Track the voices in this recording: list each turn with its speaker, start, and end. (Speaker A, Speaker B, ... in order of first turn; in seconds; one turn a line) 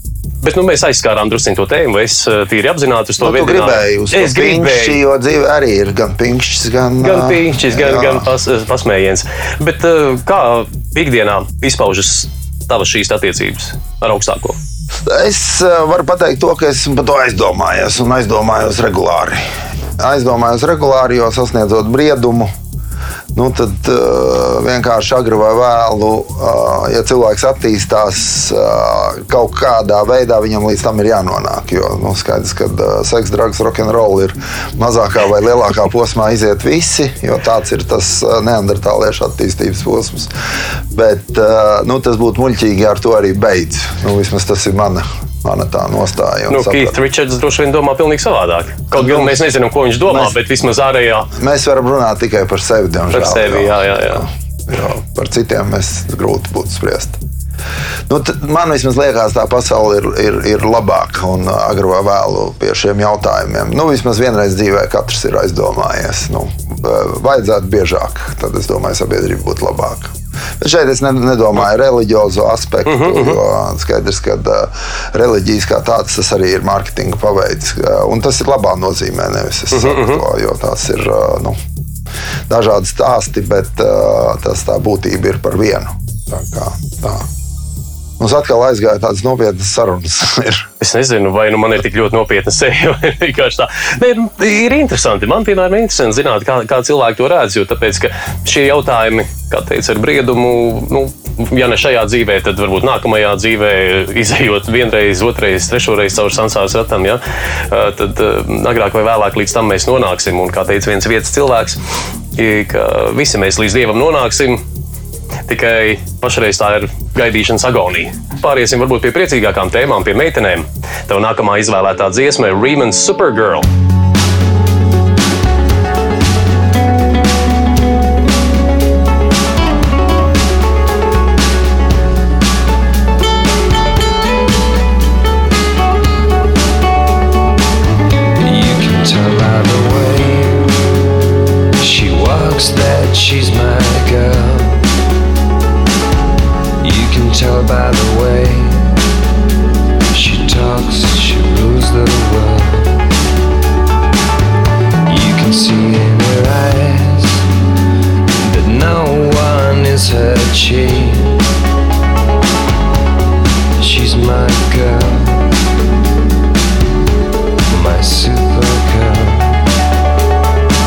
Speaker A: 0.4-5.0
Speaker B: 3.2-8.3
Speaker A: 7.0-14.6
Speaker B: 15.1-19.4
Speaker B: 20.0-22.5
Speaker B: 23.3-40.3
Speaker B: 40.9-47.0
Speaker A: 46.5-51.3
Speaker B: 49.0-49.4
Speaker B: 50.1-50.4
Speaker B: 51.3-57.2
Speaker A: 53.1-54.2
Speaker B: 58.1-81.6
Speaker A: 72.9-73.4
Speaker A: 79.7-80.2
Speaker B: 82.5-87.3
Speaker B: 88.2-90.7
Speaker A: 90.8-111.8
Speaker A: 112.4-114.6
Speaker A: 115.5-123.7
Speaker C: 138.4-140.7
Speaker C: 141.8-144.8
Speaker C: 146.8-149.0
Speaker C: 150.1-153.0
Speaker C: 155.1-157.4
Speaker C: 158.4-161.4
Speaker C: 163.8-165.5
Speaker C: 167.7-169.6